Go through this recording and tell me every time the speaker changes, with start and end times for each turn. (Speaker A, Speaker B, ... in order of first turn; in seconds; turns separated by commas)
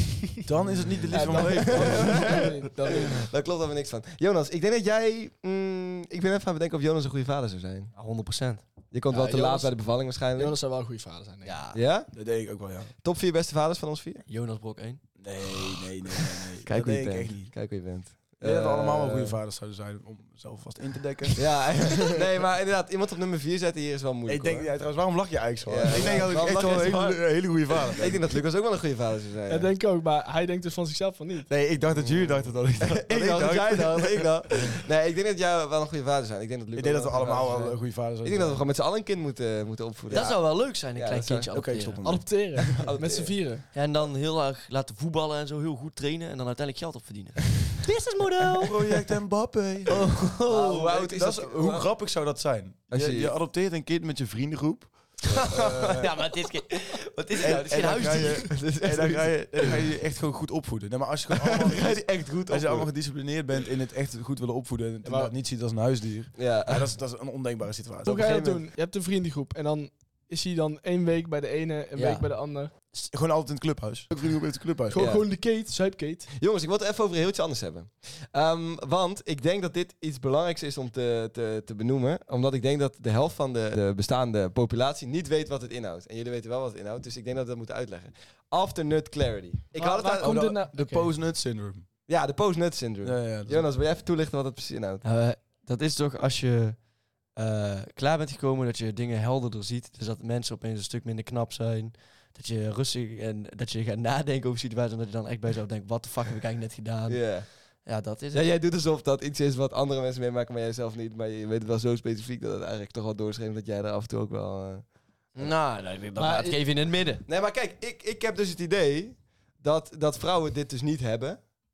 Speaker A: 0.5-2.5, Speaker B: 1.1-3.3, Speaker C: 1.1-7.9, Speaker D: 8.0-8.6, Speaker C: 8.9-10.6, Speaker B: 9.1-9.7, Speaker B: 10.3-11.7, Speaker D: 11.4-11.8, Speaker C: 11.7-12.1, Speaker A: 12.1-12.9, Speaker C: 13.0-14.2, Speaker D: 14.3-15.1, Speaker A: 15.2-17.5, Speaker D: 15.6-16.5, Speaker C: 16.7-19.4, Speaker A: 18.4-22.1, Speaker C: 21.4-24.7, Speaker A: 24.3-28.3, Speaker C: 25.7-29.7, Speaker B: 25.9-26.3, Speaker B: 29.5-31.5, Speaker A: 31.5-34.3, Speaker C: 31.9-41.5, Speaker A: 36.7-38.7, Speaker B: 37.2-37.8, Speaker D: 40.1-42.0, Speaker A: 41.5-42.3, Speaker B: 42.0-43.6, Speaker C: 42.7-43.3, Speaker D: 43.7-49.0, Speaker A: 48.6-50.0, Speaker D: 49.9-50.9, Speaker C: 49.9-51.9, Speaker A: 50.8-56.2, Speaker C: 52.9-53.3, Speaker C: 55.2-56.1, Speaker D: 55.3-58.5, Speaker C: 57.4-59.9, Speaker A: 57.4-68.6, Speaker C: 61.4-62.9, Speaker B: 65.0-65.3, Speaker C: 66.4-66.9, Speaker B: 68.0-72.7, Speaker C: 68.3-68.6, Speaker D: 72.0-72.3, Speaker A: 73.1-75.1, Speaker B: 74.9-76.3, Speaker C: 75.0-75.3, Speaker C: 76.3-90.4, Speaker B: 89.8-91.1, Speaker A: 90.2-91.8, Speaker C: 92.1-95.0, Speaker A: 93.0-93.7, Speaker D: 95.0-96.8, Speaker D: 97.3-108.5, Speaker C: 107.1-107.5, Speaker C: 108.3-114.8, Speaker D: 115.3-117.2, Speaker B: 116.2-116.6, Speaker C: 117.3-121.5